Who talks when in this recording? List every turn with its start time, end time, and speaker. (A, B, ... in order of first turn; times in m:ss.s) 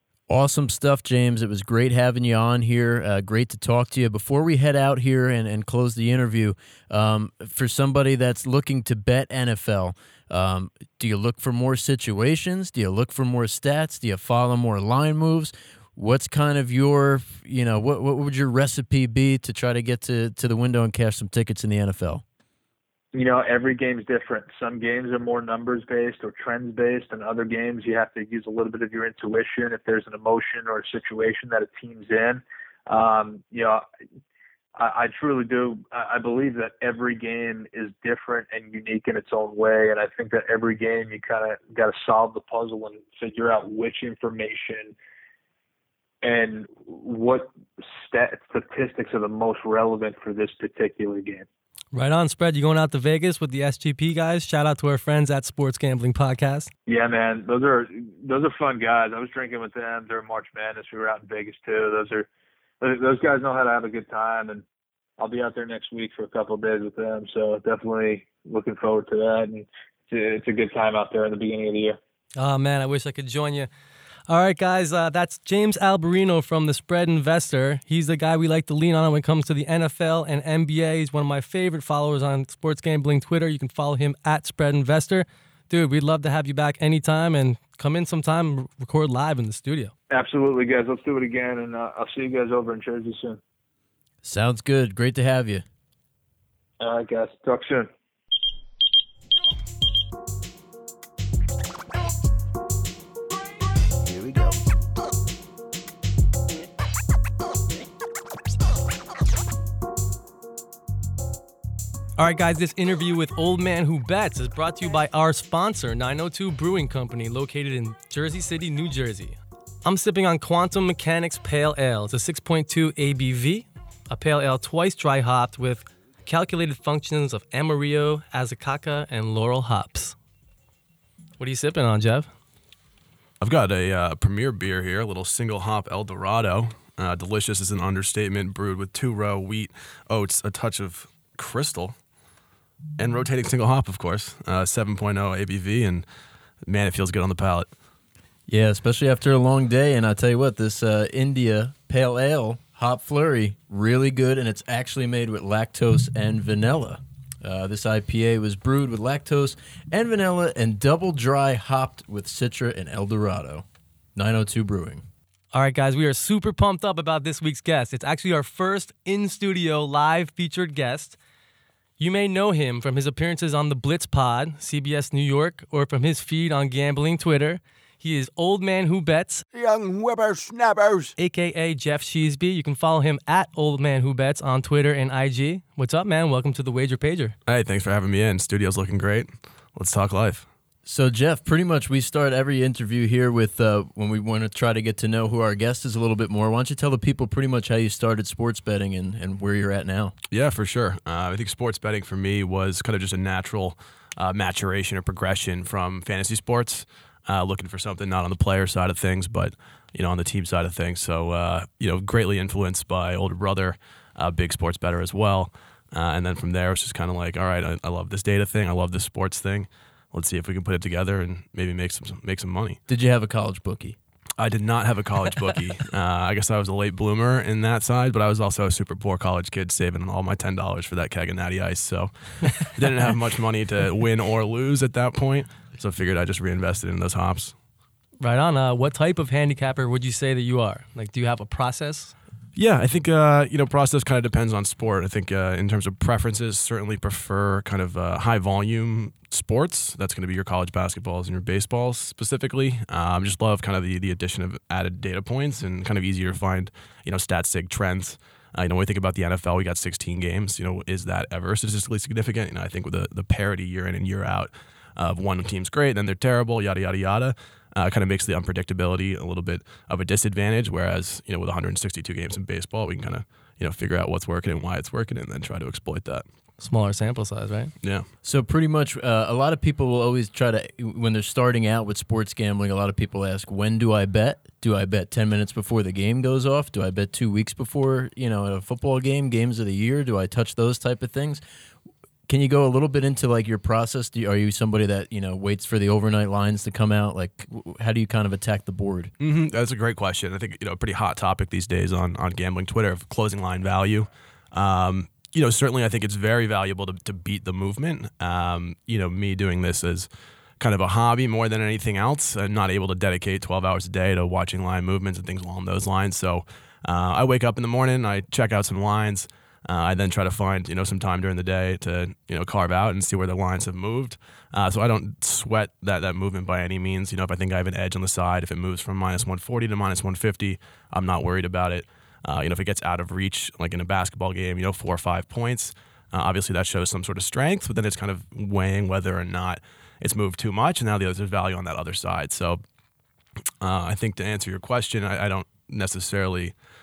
0:00.3-0:22.2 A
0:23.1-0:33.8 B
0:34.8-0:45.0 B
0:46.2-0:51.4 B
0:51.9-0:56.7 C
0:56.9-1:02.3 B
1:02.8-1:04.6 B
1:05.2-1:12.0 B
1:12.4-1:13.7 C
1:14.3-1:29.9 C
1:30.1-1:33.4 B
1:34.2-1:35.6 A
1:36.8-1:37.9 B
1:44.0-1:44.6 D
1:52.2-2:10.2 C
2:11.4-2:12.3 C
2:13.4-2:22.0 E
2:23.0-2:26.0 E
2:26.7-2:27.7 E
2:28.5-2:45.0 A
2:45.5-2:51.2 C
2:52.0-2:59.4 C
2:59.5-3:01.1 D
3:01.2-3:07.3 C
3:07.5-3:10.5 E
3:10.8-3:20.1 A
3:20.3-3:42.8 E
3:42.9-3:44.0 A
3:44.4-3:57.5 E
3:58.2-4:02.1 C
4:02.6-4:36.2 E
4:36.6-4:37.7 C
4:38.2-4:51.4 A
4:52.3-4:59.1 A
4:59.2-5:10.1 E
5:10.6-5:42.6 E
5:43.6-5:46.6 E